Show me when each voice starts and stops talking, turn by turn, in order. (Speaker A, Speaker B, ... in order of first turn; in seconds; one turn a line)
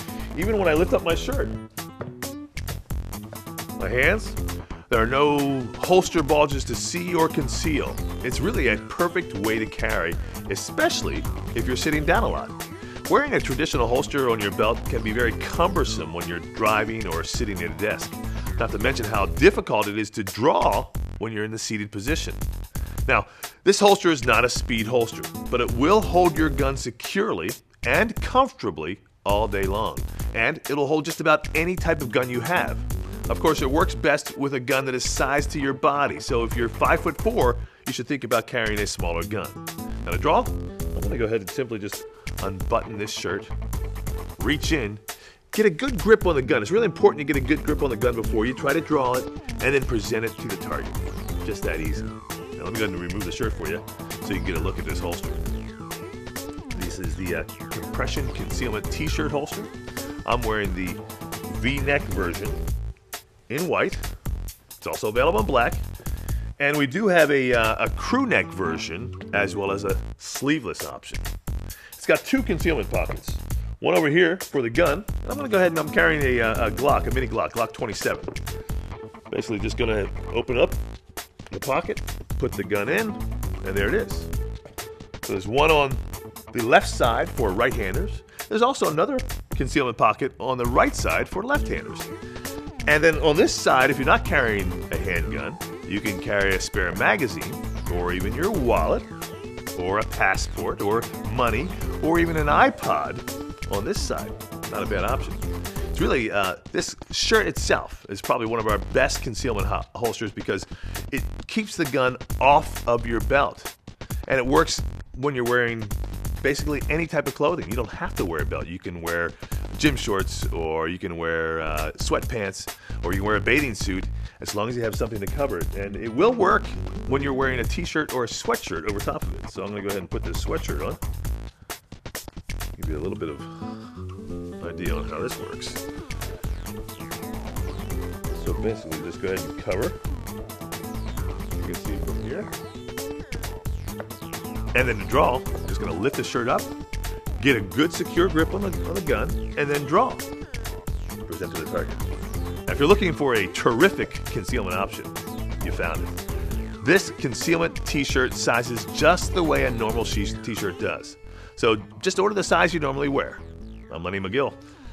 Speaker A: 0.3-1.6
Speaker A: 3.8-22.4
Speaker A: 23.1-43.5
Speaker A: 44.4-55.5
Speaker A: 56.7-59.7
Speaker A: 60.2-62.6
Speaker A: 63.5-64.1
Speaker A: 64.8-65.8
Speaker A: 66.6-71.3
Speaker A: 72.0-78.4
Speaker A: 79.3-80.8
Speaker A: 81.5-84.3
Speaker A: 85.2-86.0
Speaker A: 86.5-92.1
Speaker A: 92.8-99.1
Speaker A: 99.7-113.7
Speaker A: 114.2-131.0
Speaker A: 132.8-133.5
Speaker A: 134.6-135.8
Speaker A: 138.3-140.0
Speaker A: 141.6-142.5
Speaker A: 144.7-146.7
Speaker A: 147.4-150.3
Speaker A: 151.2-152.1
Speaker A: 152.7-156.2
Speaker A: 156.8-164.6